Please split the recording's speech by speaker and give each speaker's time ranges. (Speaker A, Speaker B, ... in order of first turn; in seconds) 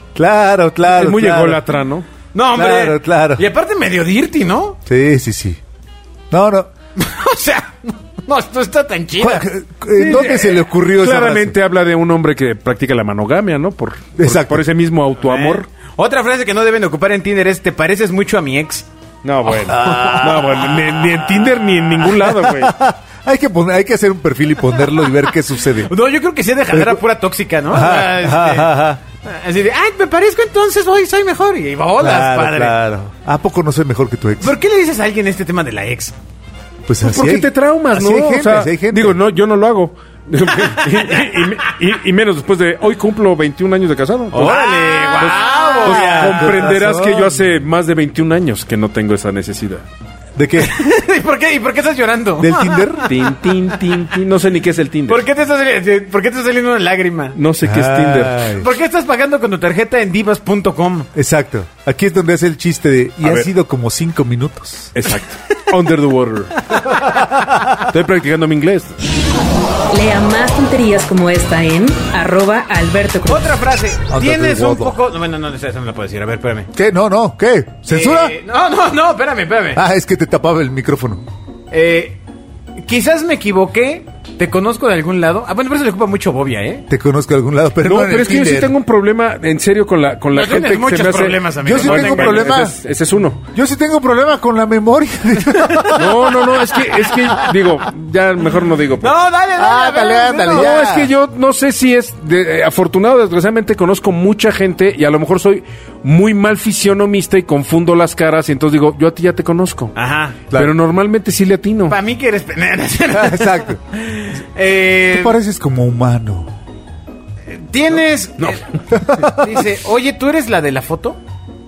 Speaker A: 0.1-1.6, 2.5-3.5, 4.8-5.6, 6.3-6.7, 9.2-11.6, 14.2-14.6, 19.5-21.3, 21.9-25.9, 26.7-27.0, 27.7-29.0, 32.0-34.5, 36.9-39.2, 44.4-44.7, 45.3-47.4, 50.4-50.7, 52.4-53.1, 57.6-58.7, 61.1-64.9, 74.1-75.0, 76.7-78.3, 79.7-81.2, 86.9-88.7, 91.6-92.8, 93.5-96.4, 99.5-101.1, 110.5-110.8, 113.1-113.8, 115.1-116.5, 118.9-119.6
Speaker B: 0.9-2.0, 9.9-15.7, 19.2-22.7, 37.0-49.8, 53.0-55.2, 57.3-58.5, 63.2-63.5, 64.9-66.9, 67.8-69.0, 87.8-93.4, 95.9-99.1, 100.5-109.9, 110.5-112.0
Speaker C: 2.3-4.8, 7.0-9.4, 15.2-18.9, 19.7-20.3, 25.8-32.7, 34.4-36.1, 41.0-41.4, 44.3-46.7, 50.6-53.1, 55.1-57.4, 58.5-61.1, 66.7-67.6, 73.3-76.7, 77.9-79.8, 81.7-82.2, 82.8-86.9, 90.3-92.5, 95.5-97.5, 99.0-100.7, 110.0-110.4, 111.9-115.3, 117.5-118.7, 119.2-121.2
Speaker D: 69.9-73.5